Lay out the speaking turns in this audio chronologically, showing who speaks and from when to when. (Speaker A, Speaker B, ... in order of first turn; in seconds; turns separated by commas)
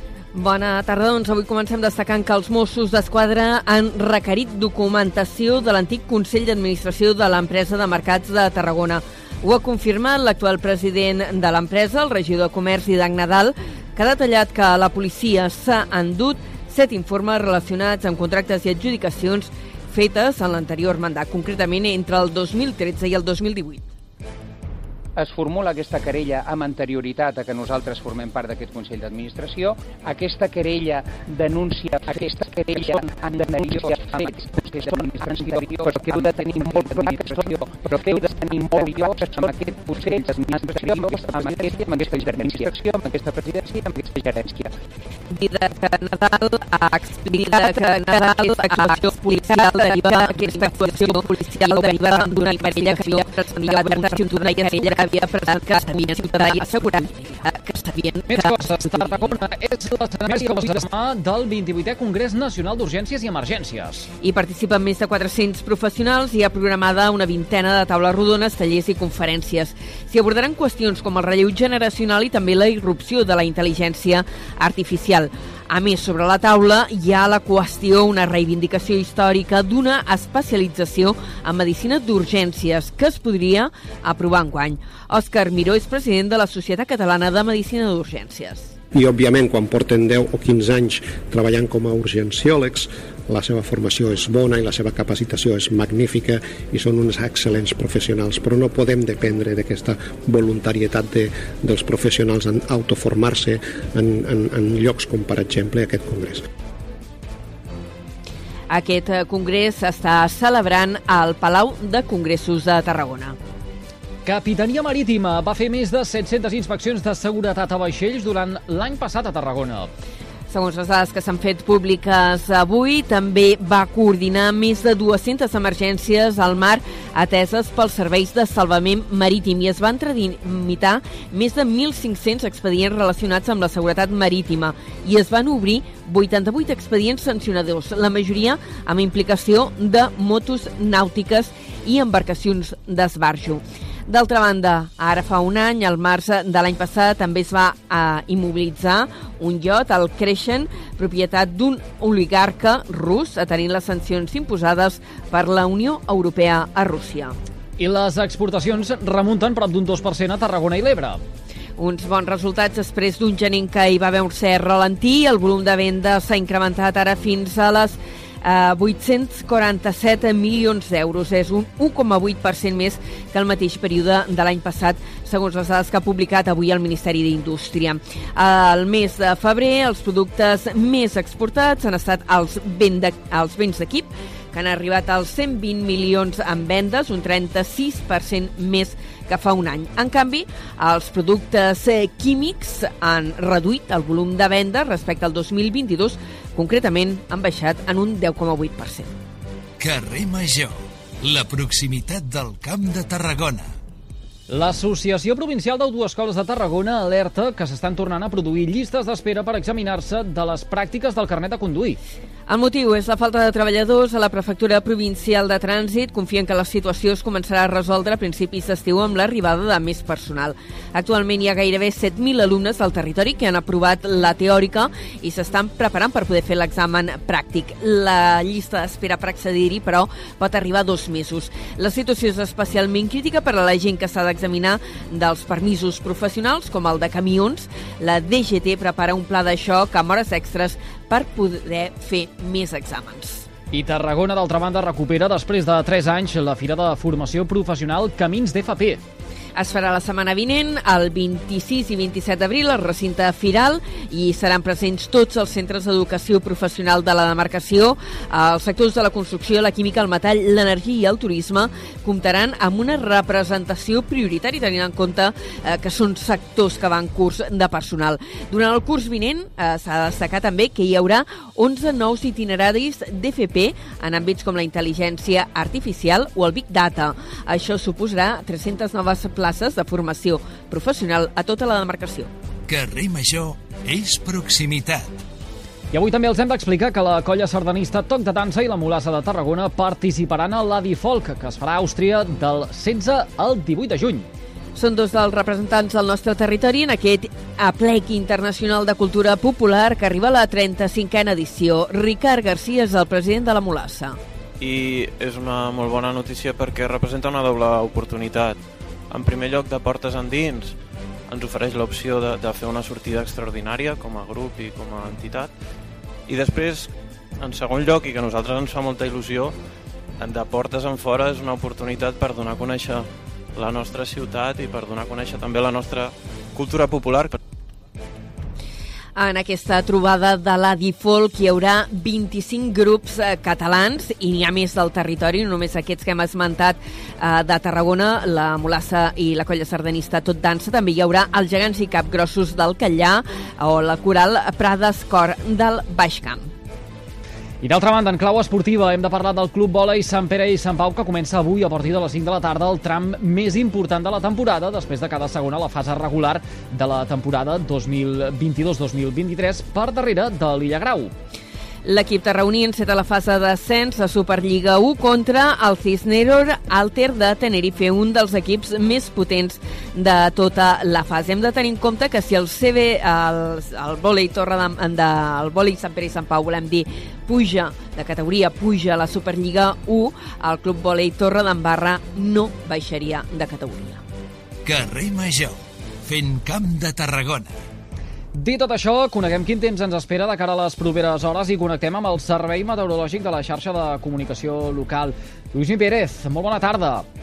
Speaker A: 0.3-23.8, Speaker B: 25.1-44.7, Speaker A: 45.3-58.9, Speaker C: 58.3-64.1, Speaker A: 64.2-88.7, Speaker D: 88.9-106.4, Speaker A: 108.7-113.4, Speaker C: 114.2-119.9, Speaker A: 120.5-157.3, Speaker C: 157.8-161.2, Speaker A: 161.8-199.1, Speaker E: 199.8-203.7, Speaker C: 204.5-212.0, Speaker A: 212.5-243.4, Speaker C: 243.7-249.0, Speaker A: 249.5-282.3, Speaker E: 282.7-285.2, Speaker C: 285.9-294.3, Speaker A: 294.7-304.2, Speaker F: 304.6-308.6, Speaker F: 309.1-310.8, Speaker F: 311.3-315.5, Speaker F: 316.3-319.5, Speaker F: 320.2-327.4, Speaker A: 329.1-346.5, Speaker C: 347.6-361.1, Speaker A: 361.8-384.0, Speaker E: 384.6-387.5, Speaker C: 388.4-397.1